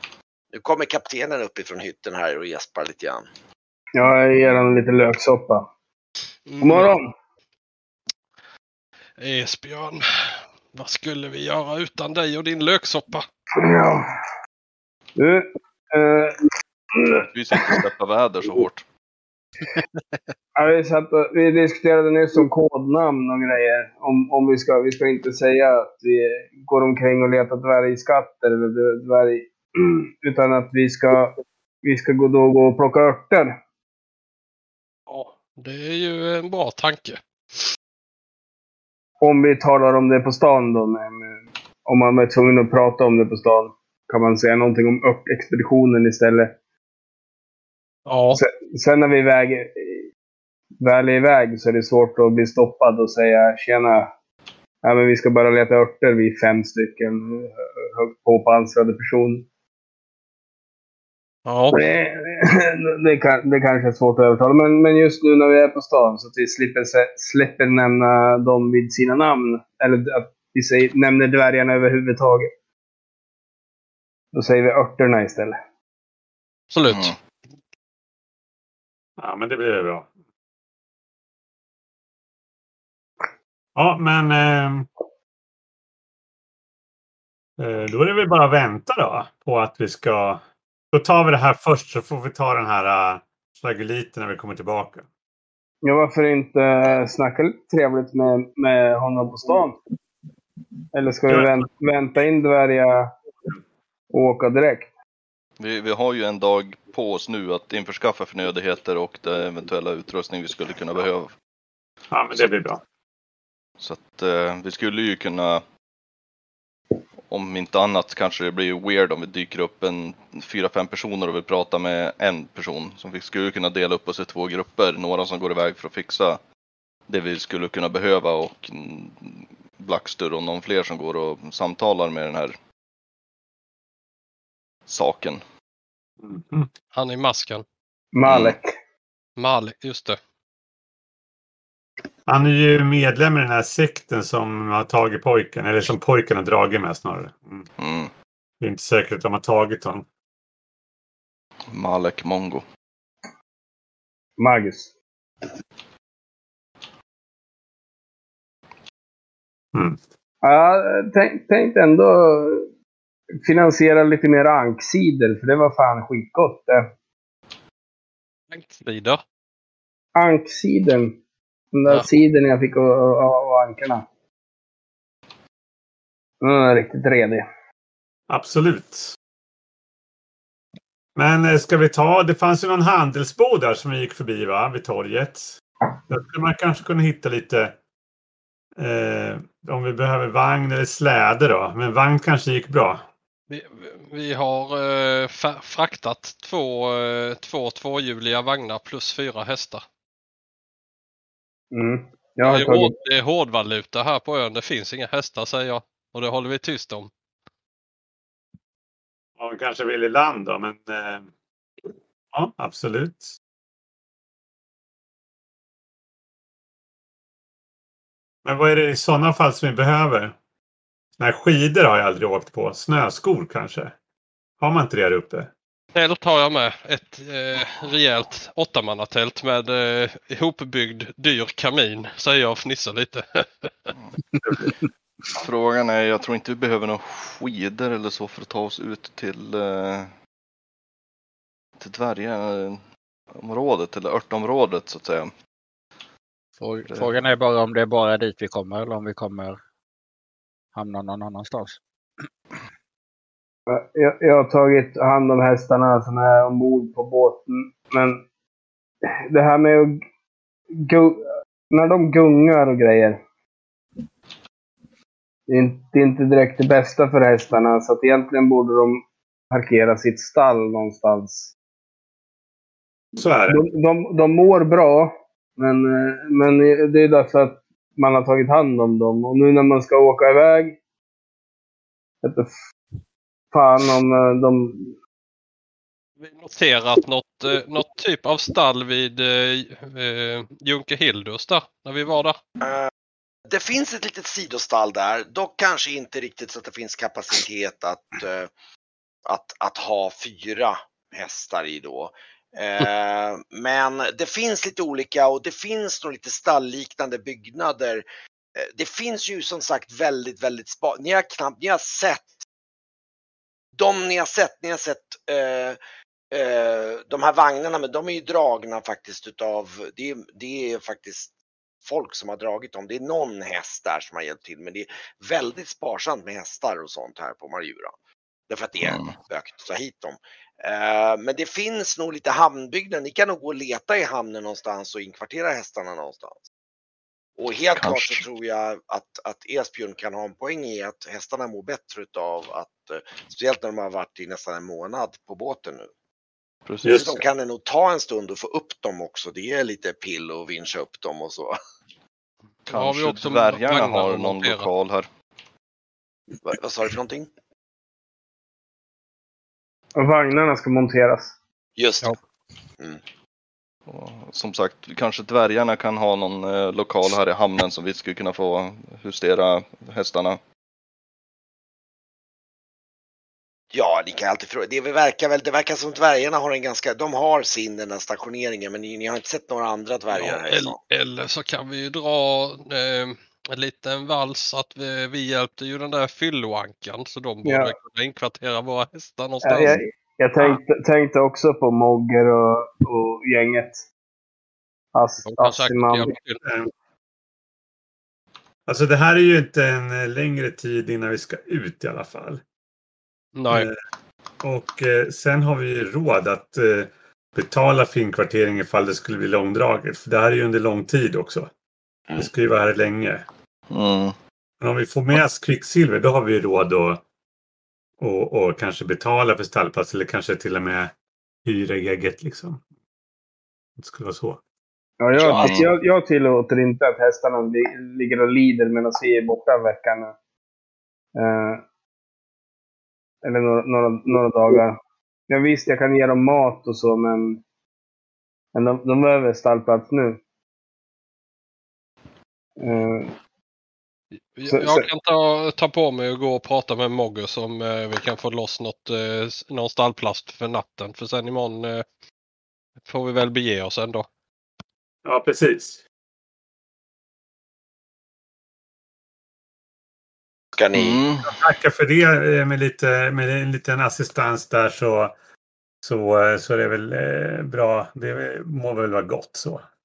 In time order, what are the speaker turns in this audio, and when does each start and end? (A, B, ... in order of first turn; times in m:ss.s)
0:00.5-0:03.3 A
0:03.9-0:05.6 B
0:06.5-0:06.9 C
0:06.6-0:07.1 B
0:09.2-0:13.3 C
0:13.6-0:14.1 B
0:15.2-0:16.4 B
0:16.9-0:17.7 B
0:17.3-0:18.8 D
0:20.6-0:33.5 B
0:35.1-0:37.2 C
0:39.2-0:46.5 B
0:48.0-0:48.4 C
0:48.3-0:50.0 B
0:50.8-0:54.1 B
0:54.8-0:59.4 B
1:01.4-1:01.8 C
1:01.7-1:12.5 B
1:14.3-1:15.6 B
1:16.7-1:17.2 C
1:16.9-1:17.1 D
1:19.2-1:20.1 E
1:23.8-1:24.9 E
1:27.6-1:30.4 E
1:30.9-1:35.0 E
1:35.8-1:39.8 B
1:40.9-1:43.1 B
1:41.3-1:41.5 E
1:44.1-1:44.9 B
1:45.6-1:51.3 D
1:52.1-1:52.8 E
1:53.8-1:55.6 D
1:57.3-2:06.4 D
2:07.1-2:12.6 D
2:14.9-2:15.4 D
2:16.2-2:16.7 E
2:16.9-2:17.6 C
2:18.1-2:18.7 B
2:18.2-2:18.6 D
2:19.4-2:20.2 C
2:22.3-2:27.7 E
2:27.8-2:28.1 D
2:28.6-2:30.0 E
2:31.7-2:32.6 D
2:34.4-2:34.9 B
2:39.7-2:40.0 E
2:40.4-2:42.6 B
2:43.4-2:46.8 B
2:48.5-2:49.2 C
2:50.2-2:51.2 B
2:51.7-2:54.0 B
2:56.4-2:57.4 B
2:58.3-2:59.1 E
3:01.2-3:05.5 E
3:06.1-3:07.8 E
3:08.8-3:13.1 E
3:13.5-3:19.8 C
3:21.7-3:22.9 B
3:22.4-3:27.1 C
3:29.4-3:31.3 E
3:32.3-3:33.3 E
3:38.4-3:40.4 E
3:41.2-3:44.0 E
3:44.6-3:45.5 E
3:45.9-3:53.9 C
3:55.4-4:00.1 D
4:01.8-4:02.8 D
4:03.3-4:05.3 D
4:06.6-4:09.6 F
4:10.7-4:11.8 F
4:13.7-4:18.2 B
4:19.3-4:20.0 B
4:20.8-4:23.2 B
4:25.5-4:31.5 B
4:33.2-4:33.6 E
4:33.5-4:40.8 B
4:42.2-4:42.5 B
4:43.5-4:44.9 B
4:46.2-4:52.4 C
4:52.6-4:52.9 A
4:53.5-4:58.5 A
4:59.2-5:08.0 A
5:08.6-5:12.4 A
5:13.8-5:15.8 A
5:16.3-5:21.3 A
5:21.8-5:27.9 A
5:28.5-5:36.4 A
5:28.8-5:29.1 D
5:37.4-5:45.9 A
5:37.8-5:38.2 D
5:46.6-5:47.1 D
5:46.8-5:47.2 E
5:46.9-5:51.6 A
5:52.7-5:55.1 D
5:52.7-5:54.7 C
5:56.4-5:57.3 A
6:00.0-6:01.3 B
6:01.8-6:02.1 A
6:03.9-6:10.4 D
6:13.7-6:20.8 A
6:20.1-6:29.8 C
6:27.4-6:27.7 B
6:29.4-6:33.8 B
6:34.9-6:36.1 B
6:35.2-6:36.4 C
6:36.4-6:36.7 E
6:38.7-6:42.4 E
6:43.4-6:43.7 C
6:43.5-6:43.7 E
6:44.4-6:51.5 E
6:52.1-6:53.2 E
6:53.7-6:54.1 D
6:54.6-6:57.0 E
6:58.0-7:00.9 E
7:01.4-7:02.6 E
7:03.8-7:04.4 E
7:05.0-7:10.1 B
7:05.1-7:05.6 A
7:05.4-7:05.7 D
7:11.2-7:11.6 B
7:13.2-7:14.8 B
7:15.3-7:17.4 B
7:18.5-7:20.2 B
7:22.6-7:23.1 B
7:24.3-7:31.8 C
7:24.5-7:24.8 B
7:32.8-7:34.1 C
7:35.0-7:35.8 E
7:40.6-7:41.0 A
7:40.7-7:41.3 D
7:41.2-7:45.1 E
7:45.8-7:49.6 E